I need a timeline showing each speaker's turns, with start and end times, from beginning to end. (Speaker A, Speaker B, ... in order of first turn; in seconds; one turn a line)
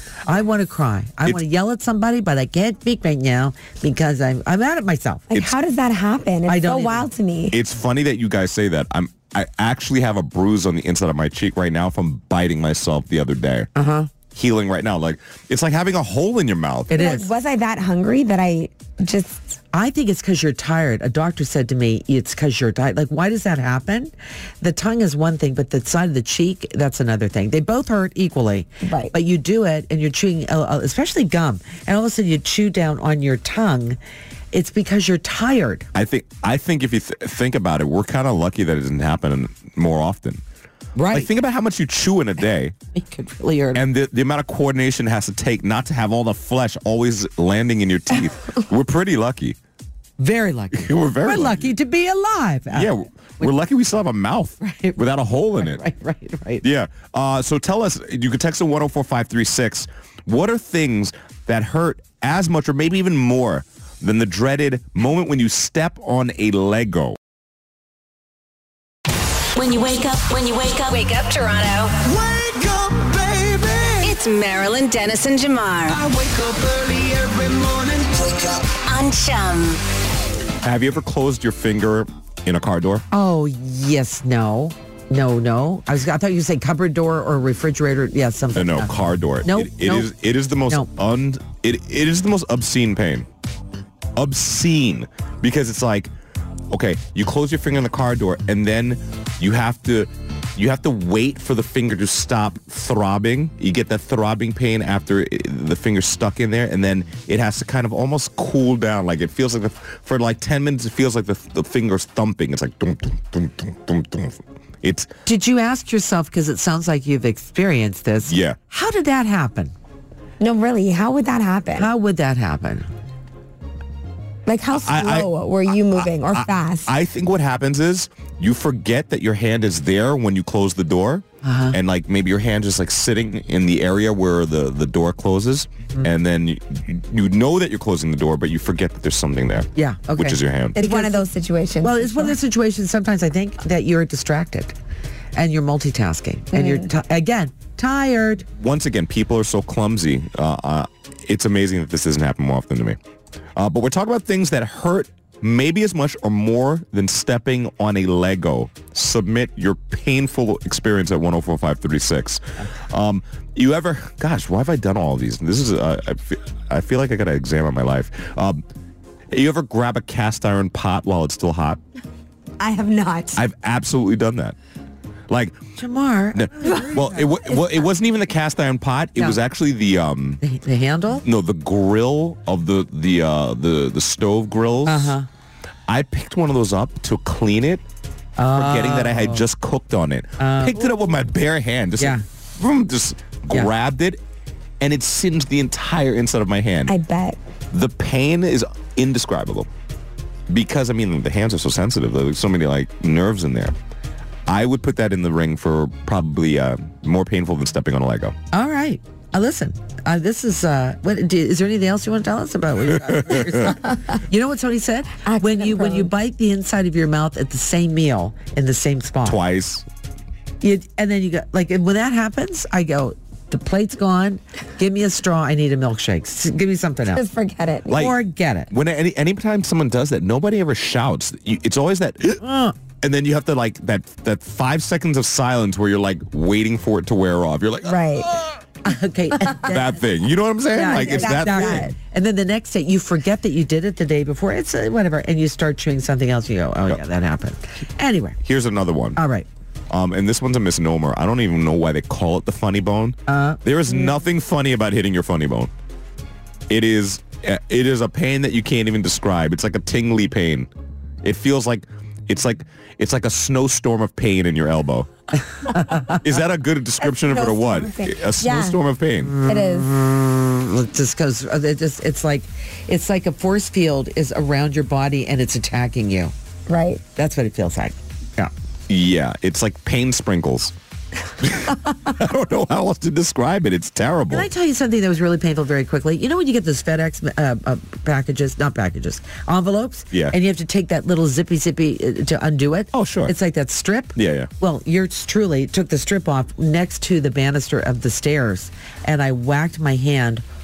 Speaker A: 0.2-5.3
Speaker B: 5.3-7.5
Speaker A: 6.5-7.1
Speaker C: 7.5-13.7
Speaker A: 13.7-14.1
Speaker C: 14.3-17.0
Speaker A: 16.9-17.3
Speaker B: 16.9-19.5
Speaker A: 19.7-34.0
Speaker B: 28.8-29.1
Speaker A: 34.5-35.9
Speaker C: 35.9-40.4
Speaker A: 40.9-41.3
Speaker C: 41.1-42.8
Speaker A: 42.9-43.8
Speaker C: 43.7-49.6
Speaker A: 50.2-53.5
Speaker C: 50.7-51.7
Speaker C: 52.7-55.8
Speaker A: 54.6-55.0
Speaker A: 55.6-56.6
Speaker C: 56.6-67.2
Speaker D: 69.5-72.0
Speaker E: 72.1-74.0
Speaker D: 74.0-76.0
Speaker E: 76.0-78.1
Speaker D: 78.8-79.8
Speaker C: 80.6-83.0
Speaker A: 83.1-90.1
Speaker C: 88.5-93.3
Speaker C: 94.1-96.1
Speaker C: 96.7-115.1
Speaker A: 115.2-119.7
Speaker C: 118.3-118.6
Speaker B: 120.4-121.9
Speaker A: 121.7-122.9
Speaker B: 124.5-126.9
Speaker C: 124.7-140.8
Speaker A: 131.4-131.8
Speaker A: 139.7-141.3
Speaker B: 140.8-142.4
Speaker A: 141.8-144.7
Speaker A: 145.3-148.4
Speaker B: 146.5-146.9
Speaker C: 148.6-153.0
Speaker C: 153.5-168.6
Speaker C: 169.3-171.8
Speaker B: 172.6-173.4
Speaker C: 173.3-174.6
Speaker C: 175.3-175.6
Speaker A: 175.8-177.6
Speaker C: 176.3-180.4
Speaker A: 180.4-181.2
Speaker C: 181.2-185.2
Speaker A: 184.8-185.3
Speaker C: 185.9-187.8
Speaker A: 188.4-189.5
Speaker C: 188.5-194.2
Speaker A: 190.4-190.8
Speaker A: 192.0-192.2
Speaker C: 194.8-196.9
Speaker B: 196.9-197.4
Speaker C: 197.7-199.7
Speaker C: 200.5-203.7
Speaker C: 204.5-208.3
Speaker A: 208.5-219.4
Speaker C: 212.9-213.7
Speaker B: 215.2-216.1
Speaker C: 219.2-219.8
Speaker A: 220.6-227.2
Speaker B: 227.1-228.1
Speaker C: 227.9-228.2
Speaker A: 227.9-228.7
Speaker C: 228.7-232.4
Speaker A: 232.4-232.8
Speaker C: 233.0-238.6
Speaker B: 237.8-238.3
Speaker A: 238.8-239.9
Speaker B: 239.4-239.7
Speaker C: 239.6-241.9
Speaker A: 240.7-248.4
Speaker B: 240.8-241.9
Speaker C: 248.4-249.2
Speaker A: 249.2-249.5
Speaker C: 249.9-255.7
Speaker A: 253.3-254.1
Speaker C: 256.7-260.7
Speaker C: 261.2-265.1
Speaker A: 265.7-266.2
Speaker C: 266.1-269.3
Speaker B: 267.0-268.8
Speaker A: 269.2-276.3
Speaker B: 269.4-269.9
Speaker B: 276.7-277.0
Speaker A: 277.1-278.5
Speaker C: 278.9-280.7
Speaker C: 281.4-284.5
Speaker A: 284.3-300.4
Speaker C: 292.9-293.3
Speaker C: 294.1-294.5